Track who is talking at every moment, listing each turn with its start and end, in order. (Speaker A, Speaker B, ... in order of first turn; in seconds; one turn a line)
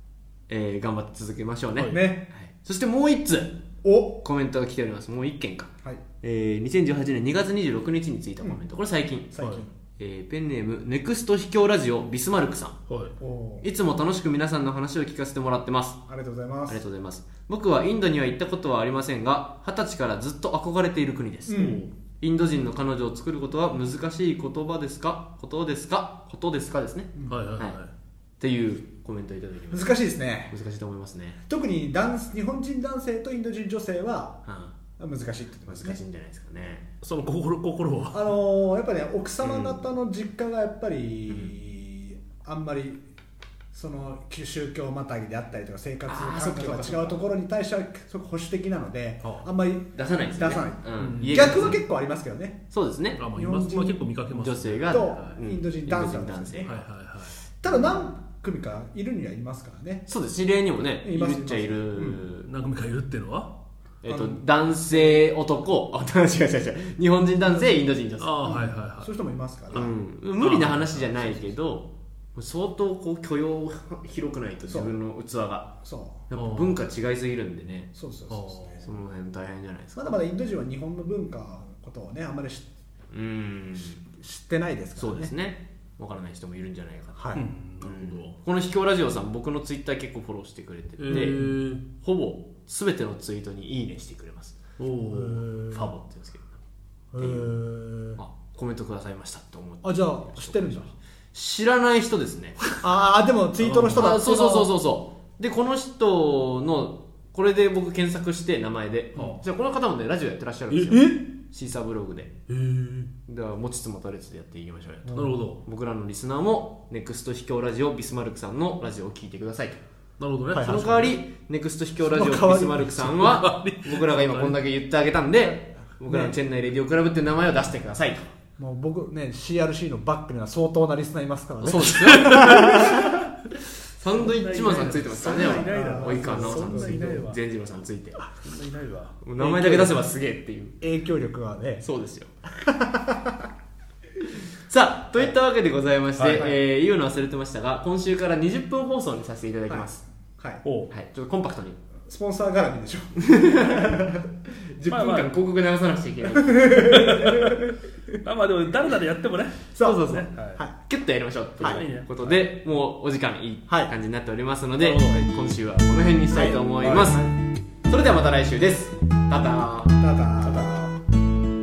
Speaker A: 0.5-3.6
Speaker B: 1.9-2.2
Speaker B: 3.8-4.2
Speaker A: 4.2-9.3
Speaker B: 9.3-9.8
Speaker C: 9.4-9.6
Speaker A: 10.0-12.8
Speaker C: 12.9-13.1
Speaker B: 13.2-13.7
Speaker A: 13.6-16.0
Speaker B: 16.1-16.8
Speaker A: 16.7-27.8
Speaker B: 21.5-21.9
Speaker C: 21.5-21.9
Speaker B: 27.1-27.5
Speaker C: 27.3-27.9
Speaker A: 28.4-30.0
Speaker B: 29.7-30.5
Speaker A: 30.5-31.4
Speaker B: 31.5-34.4
Speaker A: 34.4-34.8
Speaker B: 35.0-36.0
Speaker A: 35.7-36.9
Speaker C: 37.0-38.2
Speaker B: 38.1-43.0
Speaker A: 39.4-39.8
Speaker B: 43.7-52.6
Speaker A: 46.1-47.2
Speaker A: 49.9-51.8
Speaker C: 51.0-51.8
Speaker A: 52.7-53.2
Speaker C: 53.1-55.4
Speaker B: 53.3-54.1
Speaker A: 54.3-56.9
Speaker B: 54.9-56.8
Speaker C: 56.6-57.4
Speaker B: 57.6-60.1
Speaker A: 60.1-62.5
Speaker B: 61.0-62.2
Speaker C: 62.4-63.5
Speaker A: 64.0-68.4
Speaker B: 64.1-65.2
Speaker B: 67.5-67.8
Speaker C: 68.2-69.1
Speaker B: 68.4-69.9
Speaker A: 69.7-75.7
Speaker C: 69.7-71.3
Speaker B: 74.7-74.9
Speaker B: 75.8-76.2
Speaker A: 76.3-77.9
Speaker C: 76.3-76.8
Speaker B: 77.9-78.9
Speaker C: 78.3-78.9
Speaker A: 78.8-80.2
Speaker B: 80.0-82.7
Speaker A: 83.1-84.0
Speaker B: 84.1-85.3
Speaker A: 85.0-87.3
Speaker B: 87.2-87.4
Speaker C: 87.3-88.3
Speaker A: 87.8-94.6
Speaker C: 91.0-91.8
Speaker B: 91.1-91.5
Speaker C: 94.8-95.4
Speaker B: 95.1-95.9
Speaker A: 95.7-96.5
Speaker B: 97.1-98.2
Speaker A: 97.2-97.5
Speaker A: 98.2-102.6
Speaker B: 99.8-100.9
Speaker B: 102.8-104.7
Speaker C: 103.6-104.2
Speaker A: 103.9-112.3
Speaker B: 109.2-109.4
Speaker C: 110.7-111.0
Speaker B: 110.9-111.3
Speaker C: 112.5-113.1
Speaker A: 113.3-119.8
Speaker B: 115.0-115.4
Speaker C: 115.1-115.6
Speaker C: 120.2-121.1
Speaker B: 120.5-120.9
Speaker A: 120.6-128.3
Speaker B: 122.0-123.3
Speaker C: 122.8-124.6
Speaker B: 126.0-126.3
Speaker B: 128.6-133.2
Speaker A: 131.6-133.2
Speaker C: 131.8-133.2
Speaker A: 133.9-138.2
Speaker C: 134.0-137.4
Speaker B: 135.2-137.2
Speaker C: 138.4-139.2
Speaker A: 139.2-140.8
Speaker B: 139.4-140.1
Speaker B: 140.8-141.8
Speaker A: 141.8-142.3
Speaker B: 142.5-143.5
Speaker A: 144.6-150.0
Speaker C: 146.2-146.5
Speaker B: 149.7-150.6
Speaker C: 150.6-150.9
Speaker A: 150.9-151.8
Speaker B: 152.1-154.1
Speaker A: 153.2-157.0
Speaker C: 154.9-155.3
Speaker B: 156.4-157.7
Speaker C: 156.8-157.6
Speaker C: 158.2-160.6
Speaker B: 159.7-160.8
Speaker A: 159.8-160.3
Speaker A: 160.8-167.2
Speaker B: 161.6-161.8
Speaker C: 161.6-162.4
Speaker C: 164.8-165.2
Speaker B: 166.3-167.3
Speaker C: 166.8-167.1
Speaker A: 167.8-170.8
Speaker B: 170.0-171.0